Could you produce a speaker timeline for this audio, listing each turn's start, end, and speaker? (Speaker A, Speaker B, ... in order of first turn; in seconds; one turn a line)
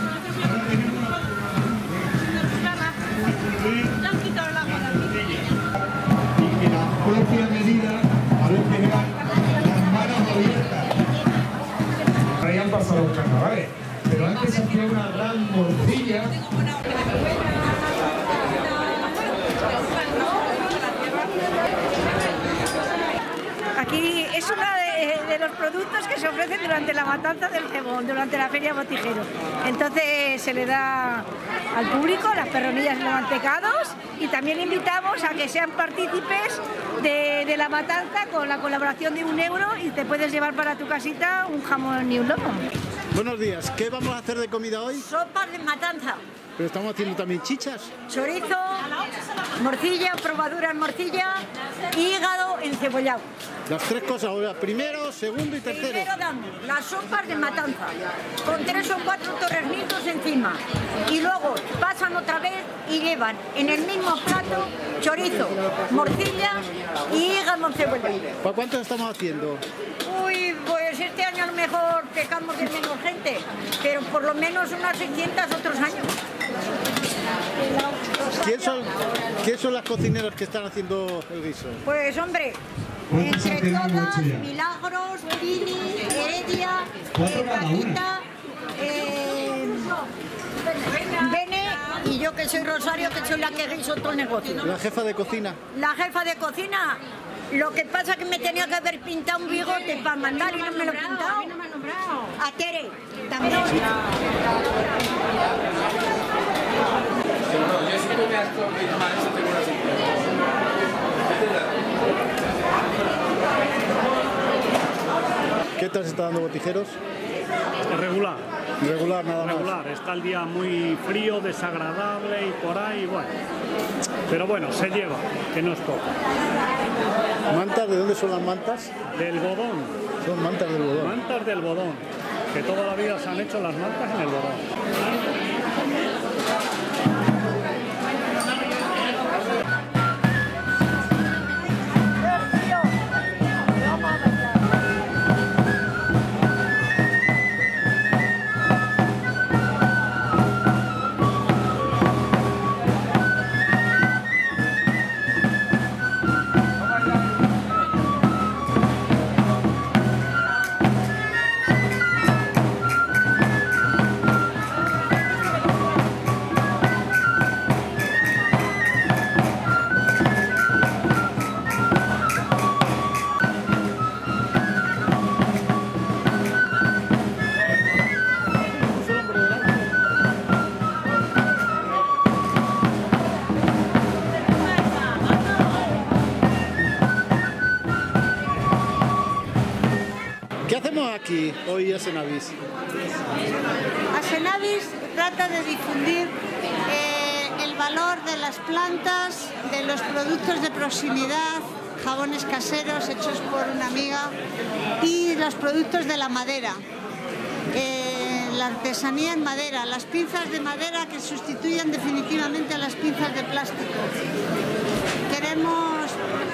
Speaker A: 0.4-1.2
Speaker A: 3.3-4.0
Speaker A: 4.6-5.5
Speaker A: 6.4-10.9
Speaker A: 12.4-16.3
Speaker B: 23.8-42.6
Speaker C: 43.1-45.1
Speaker B: 45.0-46.2
Speaker C: 46.6-48.0
Speaker B: 48.1-49.0
Speaker B: 49.6-53.3
Speaker C: 53.7-56.1
Speaker B: 55.7-68.3
Speaker C: 68.4-69.6
Speaker B: 70.0-76.1
Speaker B: 78.0-78.3
Speaker C: 78.3-81.8
Speaker B: 81.8-82.6
Speaker B: 83.1-90.0
Speaker A: 83.4-84.3
Speaker B: 90.9-94.7
Speaker C: 94.6-95.6
Speaker B: 95.7-101.6
Speaker B: 102.2-103.9
Speaker C: 115.8-117.0
Speaker D: 117.9-118.5
Speaker C: 118.8-119.7
Speaker D: 119.4-123.3
Speaker D: 124.3-126.1
Speaker C: 127.5-129.0
Speaker D: 129.2-130.0
Speaker C: 130.2-131.2
Speaker D: 131.0-134.7
Speaker C: 190.7-192.6
Speaker E: 194.1-204.3
Speaker E: 205.0-206.8
Speaker E: 207.7-214.2
Speaker E: 215.3-216.2